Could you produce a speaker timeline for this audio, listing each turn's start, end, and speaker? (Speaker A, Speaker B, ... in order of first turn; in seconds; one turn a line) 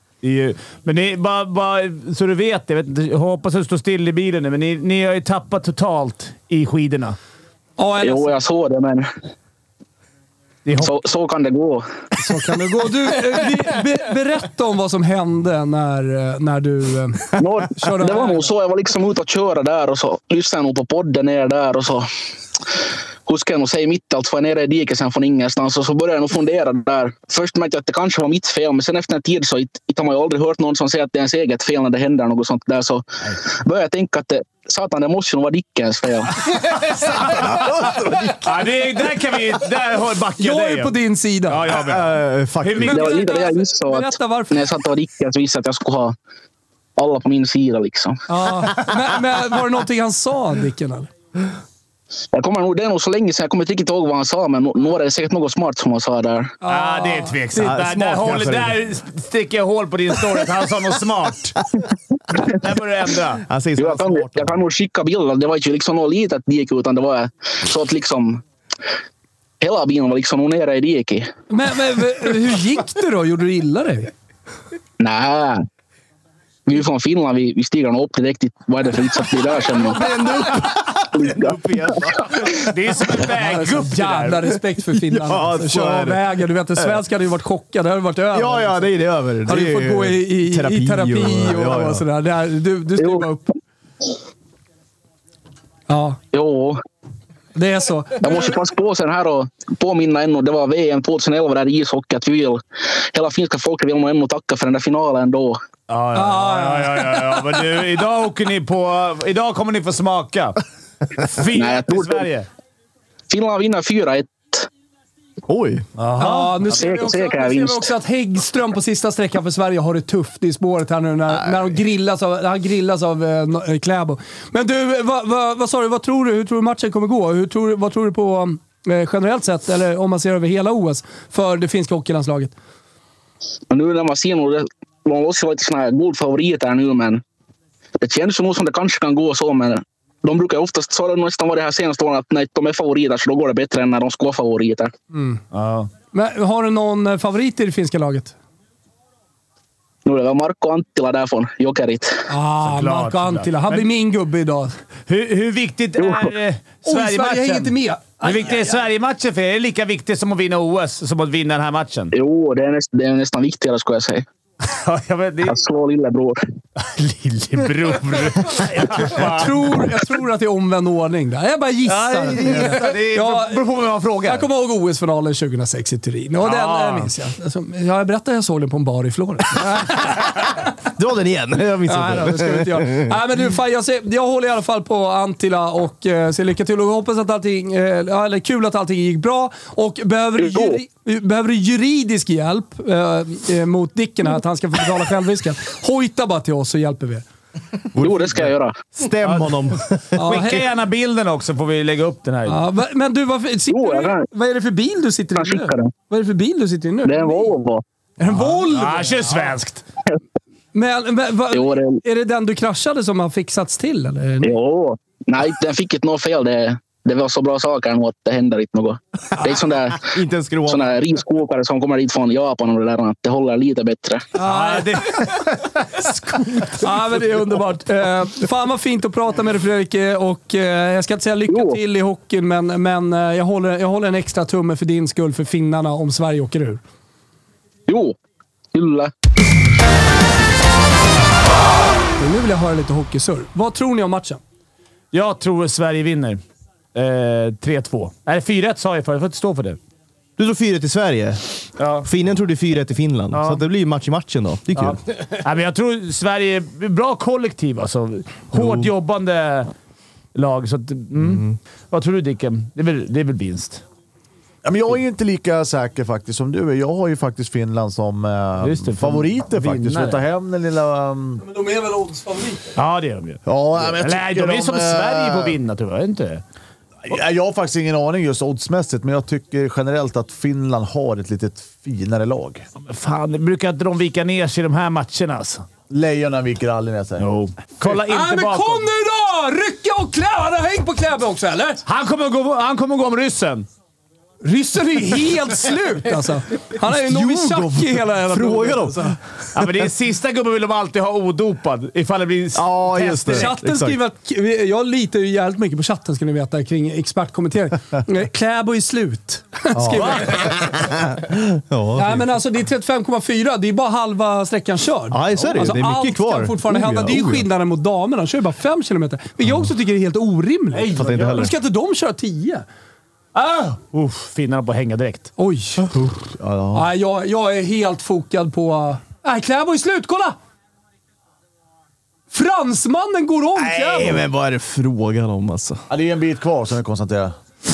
Speaker A: 0.2-7.2
Speaker B: 7.8-8.4
Speaker C: 8.0-9.1
Speaker A: 10.7-11.0
Speaker C: 10.8-11.9
Speaker B: 12.2-18.5
Speaker C: 17.4-22.1
Speaker C: 23.3-36.4
Speaker A: 37.0-37.6
Speaker D: 37.6-38.5
Speaker A: 38.4-41.0
Speaker B: 40.4-41.6
Speaker A: 41.5-43.2
Speaker D: 41.7-43.2
Speaker C: 42.9-46.1
Speaker B: 42.9-44.7
Speaker C: 47.0-48.2
Speaker B: 48.3-51.1
Speaker C: 52.3-56.5
Speaker B: 56.6-58.2
Speaker A: 56.7-61.6
Speaker D: 57.6-58.8
Speaker A: 62.5-63.4
Speaker D: 63.4-64.6
Speaker C: 63.8-68.4
Speaker C: 69.6-71.3
Speaker B: 71.5-74.1
Speaker C: 75.0-75.7
Speaker C: 76.7-80.2
Speaker D: 79.9-82.7
Speaker B: 79.9-80.6
Speaker C: 81.1-82.0
Speaker A: 82.7-84.5
Speaker B: 83.4-88.8
Speaker D: 84.9-87.0
Speaker D: 88.3-92.0
Speaker B: 89.5-93.4
Speaker C: 93.0-93.2
Speaker B: 95.9-96.2
Speaker C: 96.3-96.8
Speaker B: 97.5-98.5
Speaker C: 98.2-102.6
Speaker C: 103.1-105.6
Speaker A: 105.9-110.6
Speaker B: 106.2-107.6
Speaker A: 111.2-112.5
Speaker C: 111.5-112.3
Speaker C: 113.3-114.7
Speaker D: 115.5-115.9
Speaker A: 116.0-116.6
Speaker B: 116.2-132.6
Speaker C: 116.6-117.9
Speaker C: 133.7-137.2
Speaker C: 138.0-144.9
Speaker B: 145.1-145.4
Speaker A: 145.5-145.9
Speaker B: 146.1-148.3
Speaker C: 150.1-152.2
Speaker B: 152.3-154.7
Speaker A: 152.6-153.9
Speaker A: 155.1-162.1
Speaker C: 156.0-156.3
Speaker B: 156.8-158.8
Speaker C: 162.1-164.2
Speaker A: 164.6-165.6
Speaker C: 165.4-166.4
Speaker A: 166.8-169.9
Speaker B: 169.1-173.6
Speaker A: 171.9-174.5
Speaker B: 174.2-180.5
Speaker A: 176.4-177.1
Speaker D: 180.9-183.2
Speaker B: 181.9-197.3
Speaker C: 190.4-190.8
Speaker D: 197.9-200.6
Speaker C: 198.0-198.7
Speaker A: 199.2-199.6
Speaker B: 200.2-200.6
Speaker A: 200.2-202.6
Speaker B: 202.5-207.6
Speaker C: 203.7-204.3
Speaker C: 205.4-205.9
Speaker C: 207.1-207.8
Speaker B: 208.2-209.2
Speaker A: 208.3-209.8
Speaker B: 210.7-214.5
Speaker C: 211.5-212.0
Speaker C: 214.4-220.1
Speaker D: 220.0-221.0
Speaker C: 220.7-224.2
Speaker B: 224.3-225.4
Speaker A: 224.4-226.8
Speaker B: 226.0-236.8
Speaker C: 231.5-231.8
Speaker C: 237.9-238.2
Speaker C: 238.7-239.1
Speaker B: 242.2-244.4
Speaker A: 245.1-246.4
Speaker A: 246.9-249.8
Speaker D: 250.4-251.4
Speaker A: 251.8-252.1
Speaker D: 252.0-255.0
Speaker A: 253.3-253.6
Speaker A: 254.8-259.7
Speaker D: 258.5-258.9
Speaker A: 260.4-263.8
Speaker D: 261.1-261.6
Speaker E: 264.6-271.4
Speaker A: 268.6-270.2
Speaker B: 271.4-272.8
Speaker A: 272.8-276.4
Speaker E: 273.4-275.6
Speaker E: 277.1-282.6
Speaker A: 282.9-285.7
Speaker E: 285.9-287.3
Speaker A: 287.2-288.9
Speaker B: 287.9-291.8
Speaker A: 291.9-293.7
Speaker B: 294.4-299.2
Speaker D: 296.8-299.7
Speaker A: 299.5-303.5
Speaker D: 302.6-304.0
Speaker B: 303.3-310.6
Speaker D: 310.9-312.3
Speaker B: 311.9-322.6
Speaker D: 315.1-317.5
Speaker A: 320.8-321.3
Speaker D: 320.9-321.5
Speaker A: 323.4-325.3
Speaker B: 325.4-325.8
Speaker D: 325.9-326.9
Speaker B: 326.7-330.4
Speaker B: 332.3-334.2
Speaker A: 333.6-334.2
Speaker D: 333.9-335.8
Speaker E: 335.9-337.4